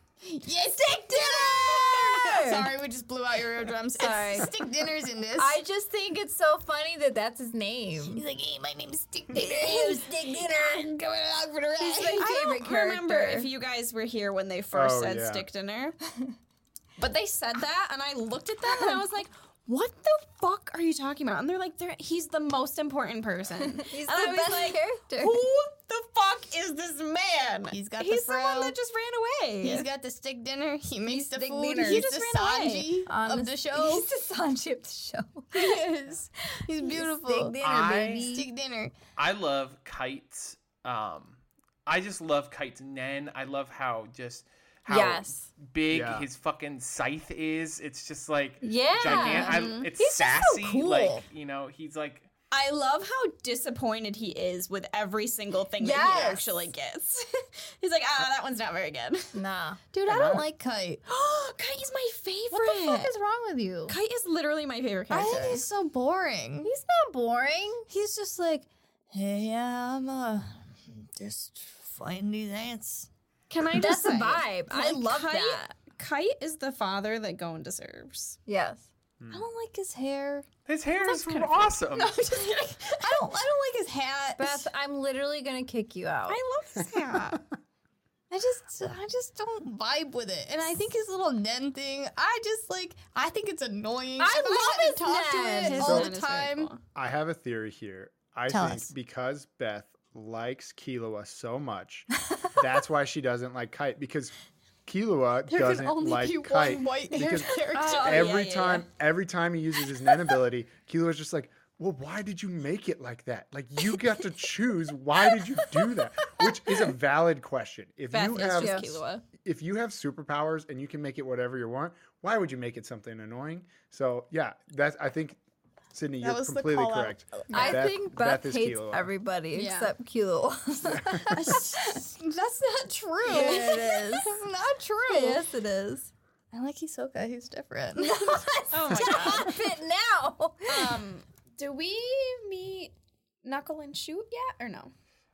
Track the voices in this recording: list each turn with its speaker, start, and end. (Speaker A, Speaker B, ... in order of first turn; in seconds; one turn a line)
Speaker A: 0.2-5.6
Speaker B: 1.1-2.7
Speaker B: 3.9-4.5
Speaker B: 5.4-8.2
Speaker A: 8.1-12.2
Speaker B: 9.3-10.9
Speaker B: 11.8-13.5
Speaker C: 12.1-15.9
Speaker D: 14.7-15.4
Speaker C: 17.0-29.9
Speaker B: 23.6-25.4
Speaker A: 27.7-28.8
Speaker A: 29.6-34.1
Speaker B: 31.1-32.1
Speaker C: 31.8-32.9
Speaker B: 33.0-35.8
Speaker A: 35.5-38.9
Speaker B: 36.7-38.5
Speaker E: 37.6-38.4
Speaker E: 39.1-52.3
Speaker B: 44.9-45.5
Speaker D: 45.9-46.2
Speaker B: 48.6-51.2
Speaker C: 49.0-49.9
Speaker C: 52.5-59.4
Speaker B: 55.8-56.5
Speaker A: 56.1-56.4
Speaker B: 59.3-59.8
Speaker A: 59.9-61.0
Speaker D: 60.0-60.5
Speaker C: 61.0-63.1
Speaker B: 62.5-64.0
Speaker C: 63.9-65.6
Speaker A: 65.1-66.7
Speaker B: 66.6-67.9
Speaker A: 67.9-73.1
Speaker C: 73.5-78.4
Speaker B: 73.7-75.6
Speaker B: 78.5-78.9
Speaker D: 79.2-79.5
Speaker A: 79.3-80.5
Speaker E: 80.7-82.1
Speaker C: 81.0-83.3
Speaker A: 82.3-84.7
Speaker B: 84.4-86.4
Speaker C: 86.3-87.4
Speaker A: 88.3-96.7
Speaker B: 94.2-96.0
Speaker C: 95.7-96.8
Speaker D: 95.8-96.1
Speaker D: 96.9-104.3
Speaker A: 98.5-98.9
Speaker D: 104.8-125.4
Speaker A: 105.5-108.3
Speaker C: 107.7-108.8
Speaker B: 107.7-108.3
Speaker C: 118.1-119.2
Speaker B: 118.5-118.9
Speaker D: 125.9-129.1
Speaker A: 126.2-127.8
Speaker B: 127.5-131.6
Speaker C: 129.5-129.9
Speaker D: 130.8-131.4
Speaker A: 131.3-135.4
Speaker B: 133.2-134.4
Speaker C: 133.3-133.6
Speaker B: 135.1-136.1
Speaker A: 136.5-138.4
Speaker B: 137.9-141.0
Speaker C: 138.7-139.6
Speaker A: 139.0-139.2
Speaker C: 140.6-144.9